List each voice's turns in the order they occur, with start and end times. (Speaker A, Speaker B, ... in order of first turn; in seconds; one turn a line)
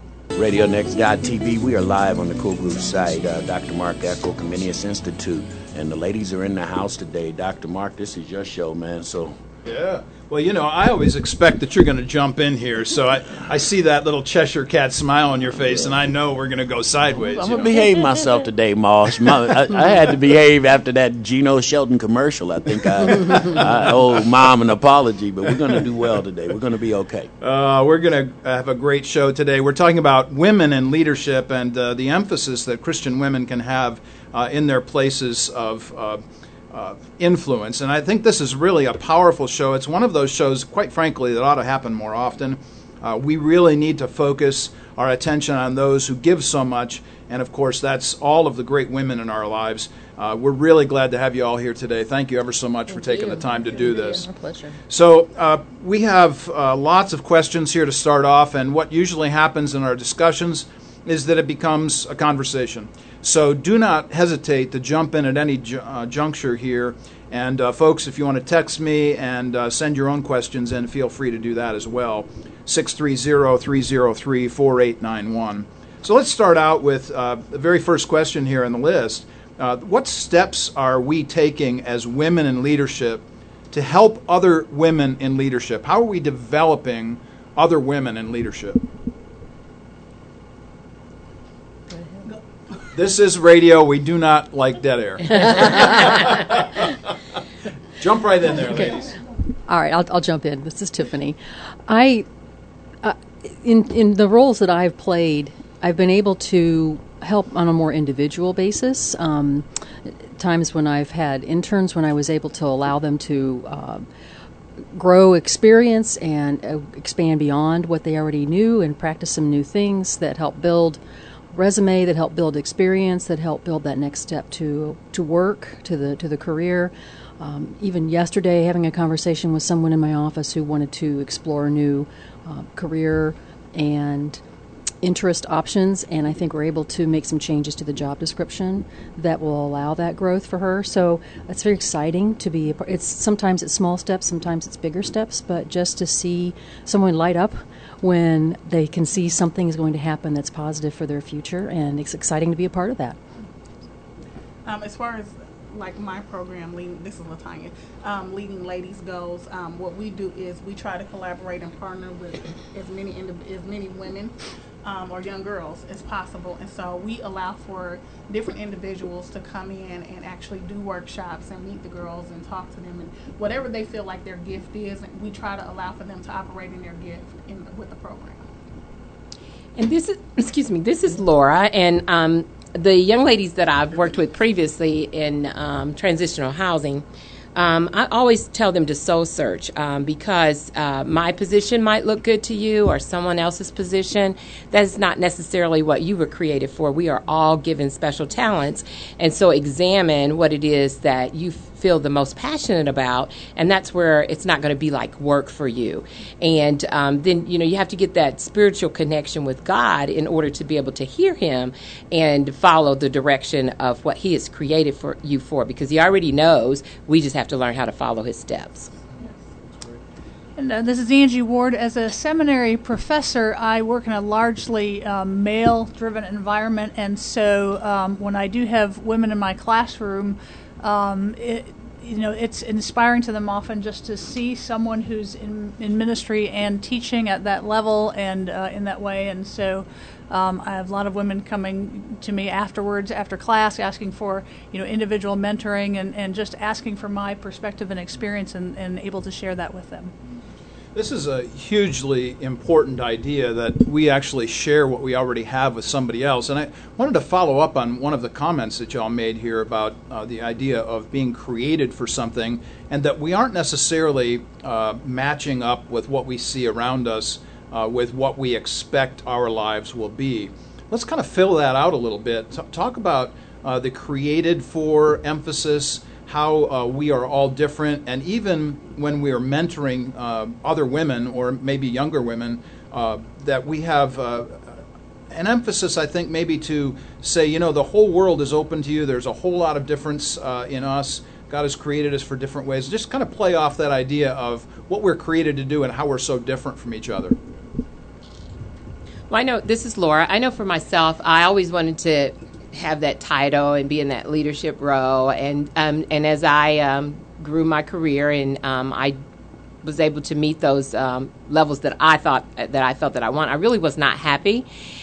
Speaker A: 0.3-9.4
Speaker B: 9.6-17.7
Speaker A: 17.3-27.3
Speaker B: 27.4-54.3
Speaker C: 54.4-54.7
Speaker B: 54.9-88.8
Speaker B: 92.9-97.0
Speaker B: 98.0-99.1
Speaker C: 99.7-102.3
Speaker C: 103.0-114.1
Speaker C: 114.9-121.0
Speaker C: 121.5-134.4
Speaker C: 135.0-153.2
Speaker D: 154.6-178.4
Speaker E: 179.8-187.0
Speaker E: 187.6-218.9
Speaker F: 220.6-250.1
Speaker B: 250.9-297.4
Speaker E: 299.3-309.2
Speaker E: 309.8-314.6